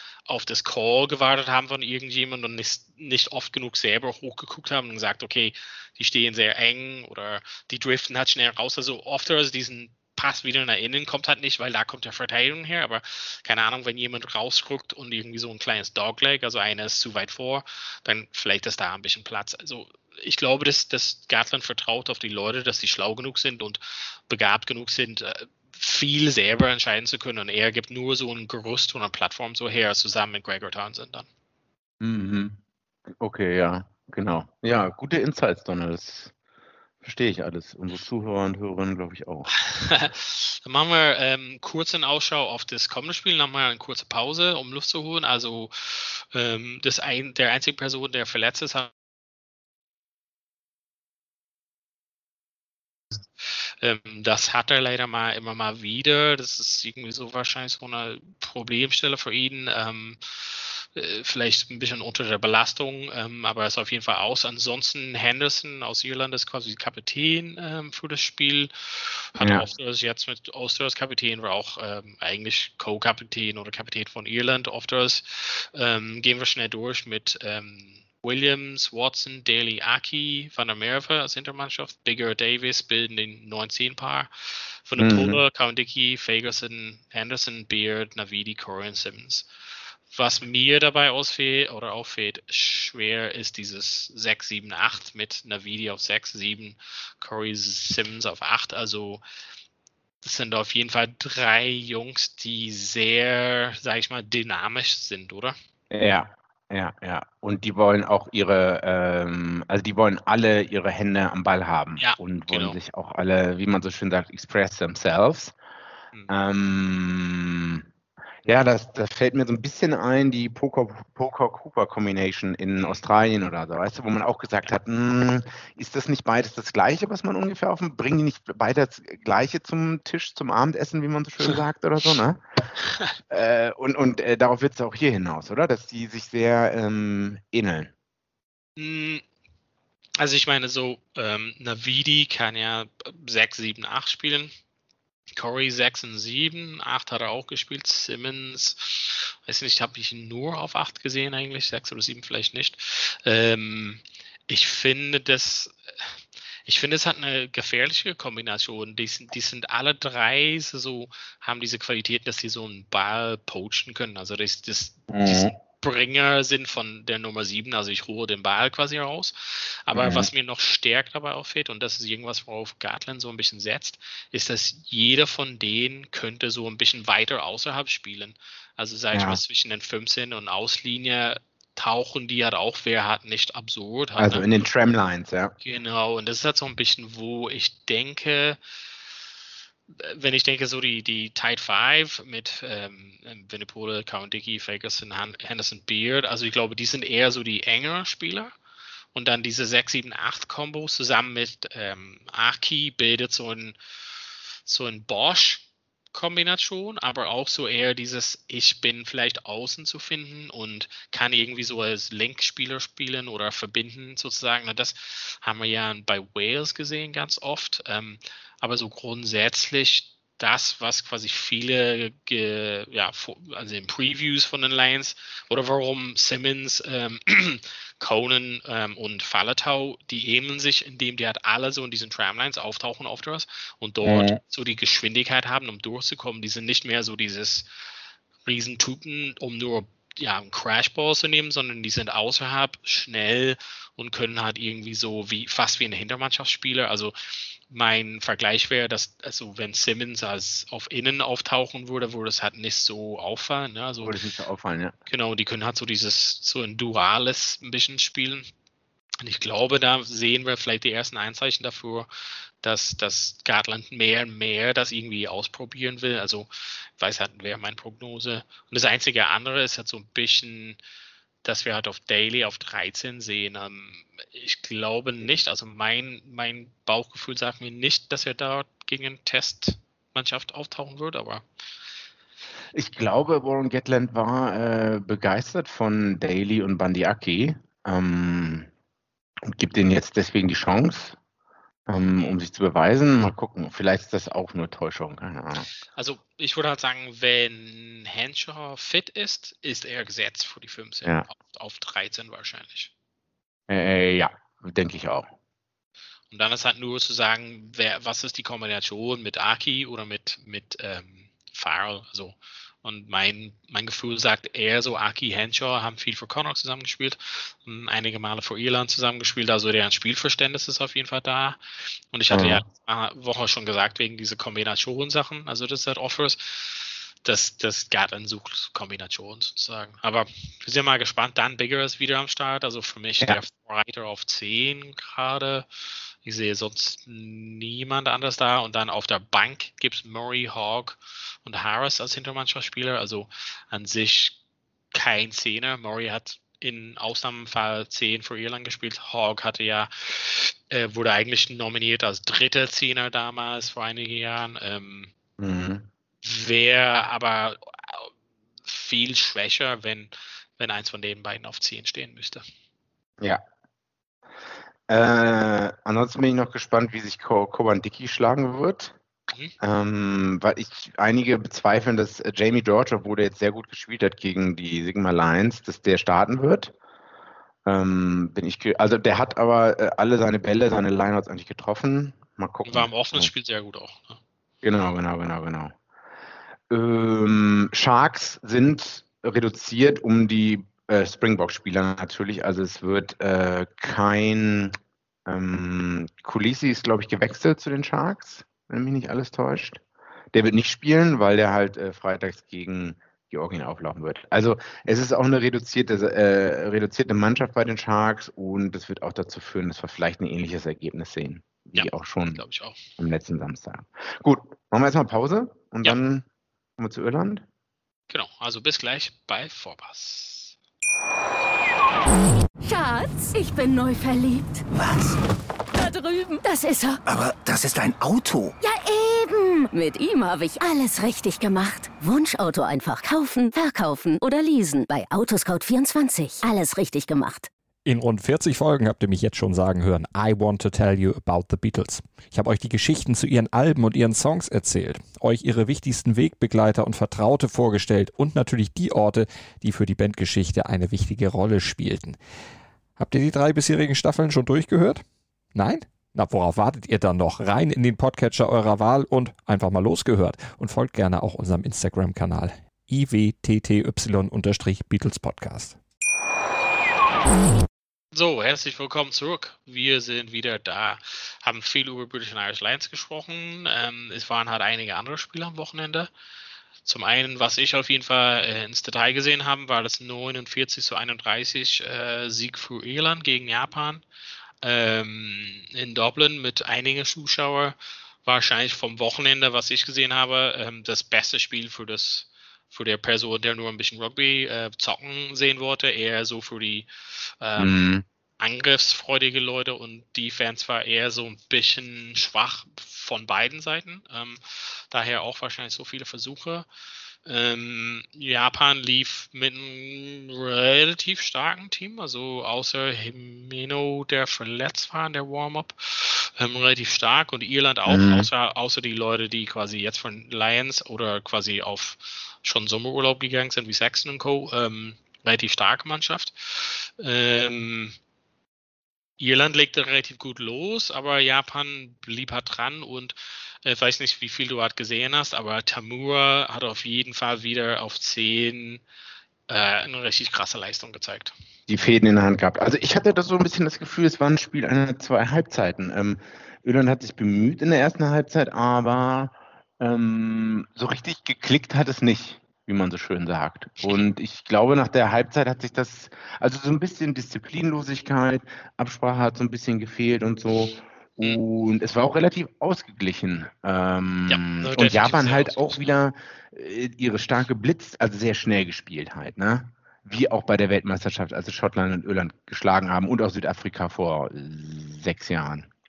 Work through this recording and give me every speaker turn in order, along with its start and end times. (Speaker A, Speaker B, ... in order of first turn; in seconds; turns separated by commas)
Speaker A: 0.3-31.3, Speaker B: 32.0-32.6, Speaker B: 33.2-36.3, Speaker B: 37.0-39.5, Speaker A: 39.6-48.9, Speaker A: 53.8-84.3, Speaker B: 69.4-69.7, Speaker A: 84.9-89.4, Speaker B: 85.0-85.4, Speaker A: 90.1-99.2, Speaker A: 100.2-105.5, Speaker B: 105.9-115.5, Speaker A: 112.0-112.8, Speaker B: 116.3-117.9, Speaker B: 118.4-132.4, Speaker A: 122.8-123.0, Speaker B: 133.3-137.9, Speaker A: 138.8-139.2, Speaker A: 140.2-144.5, Speaker A: 145.3-155.7, Speaker A: 156.7-169.3, Speaker B: 165.1-165.5, Speaker A: 169.8-184.5, Speaker B: 169.9-170.3, Speaker B: 179.1-179.4, Speaker B: 184.2-185.5, Speaker A: 185.6-188.6, Speaker A: 190.0-198.5, Speaker A: 199.1-203.8, Speaker A: 204.7-237.6, Speaker B: 234.0-234.4, Speaker A: 238.4-254.2, Speaker B: 254.0-254.9, Speaker A: 255.1-258.4, Speaker A: 259.2-262.1, Speaker A: 262.6-270.8, Speaker A: 271.4-281.4, Speaker B: 282.7-288.7, Speaker B: 289.5-291.2, Speaker B: 291.9-295.7, Speaker A: 295.9-302.9, Speaker B: 303.7-305.3, Speaker A: 306.3-321.6, Speaker A: 322.1-335.6, Speaker B: 322.3-322.6, Speaker A: 336.2-344.3, Speaker A: 344.9-355.1, Speaker B: 355.4-355.9, Speaker A: 356.2-358.1, Speaker A: 358.6-362.4, Speaker B: 364.9-368.9, Speaker B: 369.6-376.7, Speaker B: 377.6-383.3, Speaker A: 382.7-384.2, Speaker B: 384.6-385.7, Speaker B: 386.7-394.7, Speaker B: 395.2-399.8, Speaker B: 400.3-412.4, Speaker A: 411.7-412.8, Speaker B: 413.0-416.2, Speaker B: 416.8-417.4, Speaker A: 418.1-420.6, Speaker C: 422.6-424.6, Speaker D: 424.7-425.2, Speaker C: 425.7-427.0, Speaker D: 427.1-428.5, Speaker C: 428.6-437.5, Speaker E: 437.9-452.2, Speaker E: 453.0-455.0, Speaker E: 455.5-465.8, Speaker A: 468.1-476.1, Speaker A: 476.9-484.0, Speaker A: 484.6-496.9, Speaker A: 497.4-497.8, Speaker B: 497.6-498.0, Speaker A: 498.4-506.7, Speaker A: 507.2-527.9, Speaker B: 517.9-518.3, Speaker A: 529.2-538.8, Speaker A: 539.5-541.3, Speaker B: 541.7-575.7, Speaker A: 564.3-565.9